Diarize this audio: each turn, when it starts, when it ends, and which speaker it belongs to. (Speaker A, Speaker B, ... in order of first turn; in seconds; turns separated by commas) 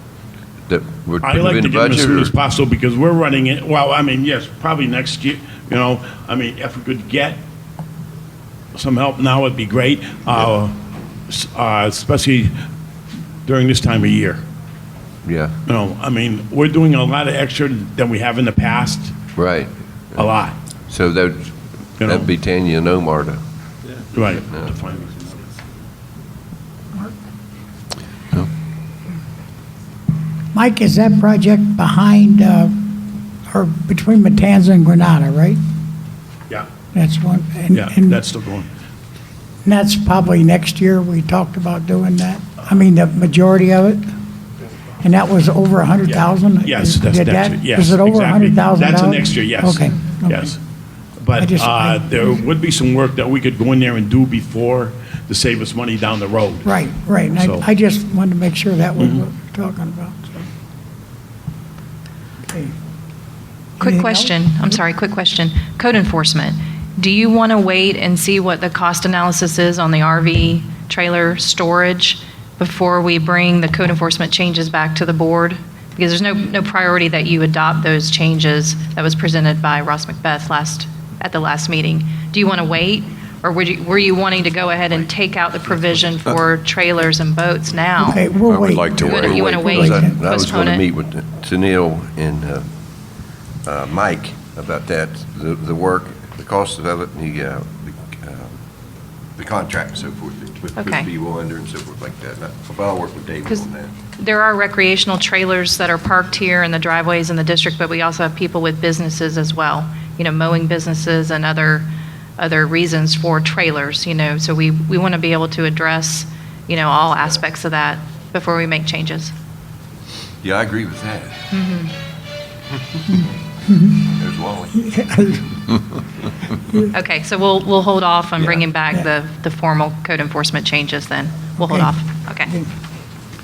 Speaker A: 0.7-2.3, Speaker B: 1.2-7.4, Speaker B: 8.7-12.6, Speaker B: 13.4-14.4, Speaker A: 15.2-15.6, Speaker B: 15.7-19.2, Speaker A: 19.3-20.2, Speaker B: 20.1-20.6, Speaker A: 20.9-23.4, Speaker B: 22.0-22.3, Speaker B: 24.1-25.4, Speaker A: 24.5-24.8, Speaker C: 30.5-35.6, Speaker C: 36.9-38.2, Speaker B: 37.7-38.7, Speaker C: 39.6-44.0, Speaker C: 45.0-50.5, Speaker B: 46.6-50.6, Speaker B: 51.2-56.7, Speaker C: 51.4-52.4, Speaker C: 56.6-60.5, Speaker B: 57.4-57.6, Speaker C: 62.5-62.7, Speaker C: 63.8-64.3, Speaker D: 63.8-88.2, Speaker C: 88.0-90.2, Speaker A: 88.5-92.7, Speaker D: 88.9-90.8, Speaker A: 93.6-98.6, Speaker A: 99.3-103.9, Speaker D: 100.8-101.1, Speaker D: 104.2-119.3, Speaker A: 120.4-121.4, Speaker D: 121.5-121.9, Speaker C: 123.7-124.1, Speaker A: 124.2-124.8, Speaker C: 124.7-125.7, Speaker C: 126.5-126.9, Speaker D: 126.9-132.5